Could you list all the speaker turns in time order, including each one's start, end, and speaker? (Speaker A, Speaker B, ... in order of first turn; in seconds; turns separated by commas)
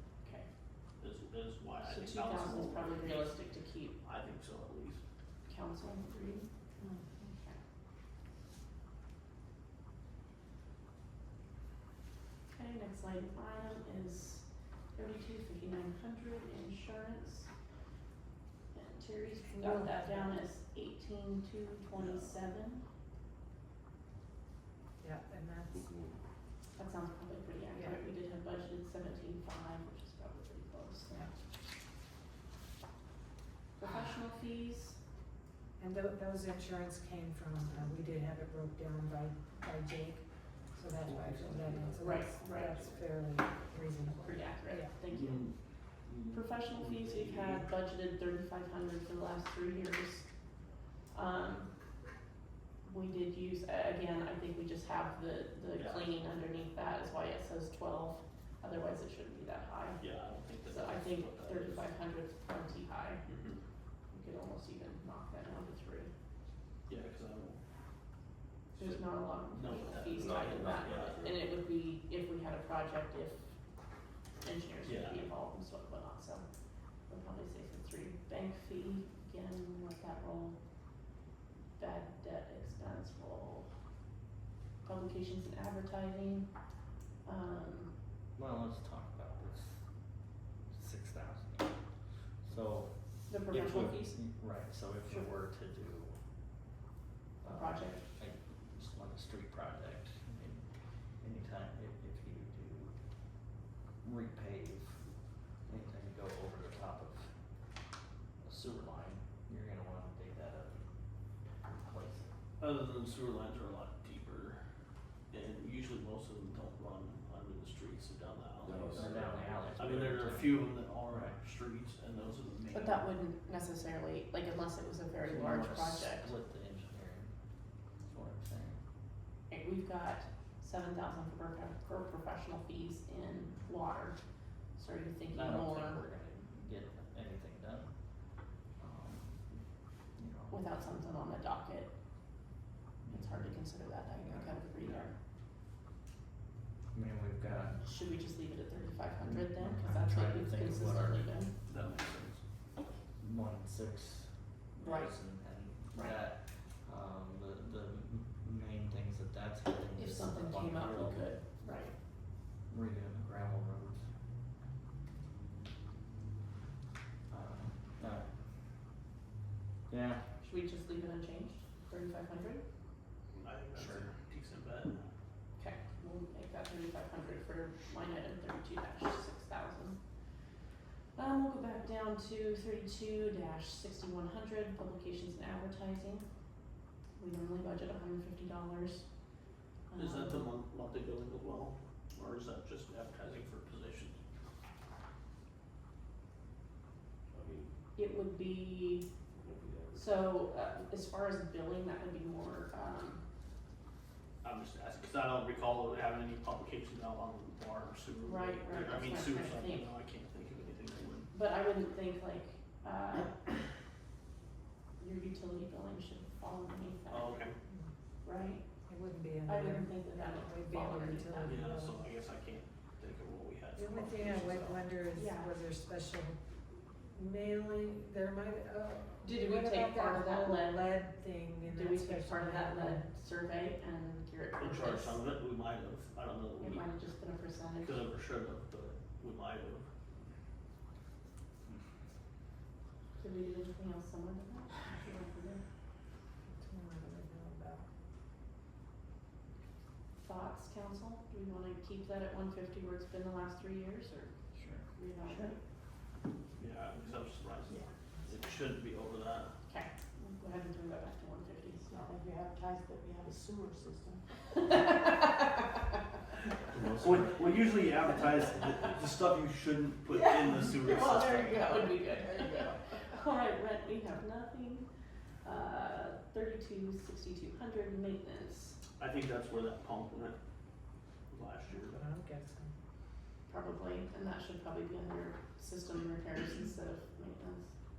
Speaker A: 0.2-0.5, Speaker B: 1.0-3.4, Speaker A: 1.8-4.0, Speaker B: 4.0-5.0, Speaker A: 5.5-6.5, Speaker C: 6.8-7.1, Speaker A: 7.2-7.6, Speaker A: 12.5-17.5, Speaker A: 18.7-22.8, Speaker C: 19.4-20.4, Speaker B: 21.9-22.3, Speaker C: 25.0-25.9, Speaker D: 25.7-26.1, Speaker A: 26.8-31.3, Speaker C: 27.7-28.0, Speaker A: 33.8-35.0, Speaker C: 35.8-44.9, Speaker D: 41.0-42.9, Speaker A: 42.0-42.9, Speaker A: 44.2-45.6, Speaker B: 45.1-47.7, Speaker A: 46.3-50.3, Speaker A: 51.1-51.7, Speaker A: 52.8-63.2, Speaker B: 55.8-56.1, Speaker B: 60.0-61.9, Speaker B: 63.2-63.6, Speaker A: 64.1-66.1, Speaker B: 66.9-67.6, Speaker B: 68.7-71.3, Speaker A: 68.8-73.5, Speaker D: 70.1-71.3, Speaker A: 74.4-76.5, Speaker B: 74.8-75.3, Speaker A: 77.1-80.6, Speaker A: 81.8-83.7, Speaker A: 84.8-86.5, Speaker A: 87.2-87.9, Speaker E: 88.3-89.9, Speaker E: 90.7-96.2, Speaker A: 93.3-94.5, Speaker A: 95.0-95.3, Speaker E: 97.4-103.2, Speaker A: 97.4-98.0, Speaker E: 104.0-107.4, Speaker E: 108.4-112.3, Speaker B: 112.6-114.6, Speaker B: 115.3-123.1, Speaker D: 118.6-119.4, Speaker E: 118.9-121.4, Speaker A: 122.7-126.3, Speaker E: 125.2-127.4, Speaker E: 128.0-128.8, Speaker A: 129.5-134.2, Speaker A: 134.7-136.0, Speaker E: 135.3-140.6, Speaker A: 140.5-141.9, Speaker E: 143.0-144.6, Speaker A: 143.1-145.1, Speaker B: 144.8-145.1, Speaker E: 146.9-147.8, Speaker A: 147.8-151.5, Speaker E: 149.2-151.5, Speaker B: 151.7-152.4, Speaker E: 153.2-161.3, Speaker A: 154.8-155.4, Speaker A: 155.9-156.2, Speaker A: 159.9-161.9, Speaker E: 162.7-164.1, Speaker E: 167.3-168.3, Speaker E: 169.9-170.3, Speaker A: 170.4-172.6, Speaker B: 173.3-175.1, Speaker E: 173.7-174.1, Speaker A: 175.6-180.0, Speaker A: 181.2-186.2, Speaker A: 187.2-189.1, Speaker A: 189.9-190.5, Speaker B: 189.9-194.2, Speaker D: 197.3-197.7, Speaker A: 197.9-199.0, Speaker D: 199.4-200.1, Speaker A: 199.9-203.2, Speaker B: 204.4-211.3, Speaker A: 208.2-209.9, Speaker A: 211.3-213.4, Speaker A: 215.0-217.5, Speaker B: 217.1-217.6, Speaker A: 218.2-218.6, Speaker C: 218.9-222.0, Speaker A: 219.4-221.6, Speaker B: 221.4-224.8, Speaker C: 223.7-226.4, Speaker A: 225.1-225.5, Speaker C: 227.1-233.1, Speaker A: 229.2-230.8, Speaker A: 231.6-235.2, Speaker B: 234.6-236.8, Speaker A: 236.6-238.0, Speaker B: 237.8-239.8, Speaker A: 243.2-245.6, Speaker C: 246.5-247.8, Speaker A: 250.2-254.3, Speaker E: 254.5-254.8, Speaker A: 254.9-255.6, Speaker B: 256.6-259.5, Speaker A: 259.7-261.9, Speaker F: 261.9-264.2, Speaker A: 264.6-265.7, Speaker D: 266.7-267.8, Speaker B: 266.9-271.9, Speaker A: 267.6-268.9, Speaker A: 270.1-274.9, Speaker A: 275.4-278.8, Speaker B: 279.0-280.4, Speaker B: 281.3-282.0, Speaker C: 281.7-282.7, Speaker A: 283.5-287.7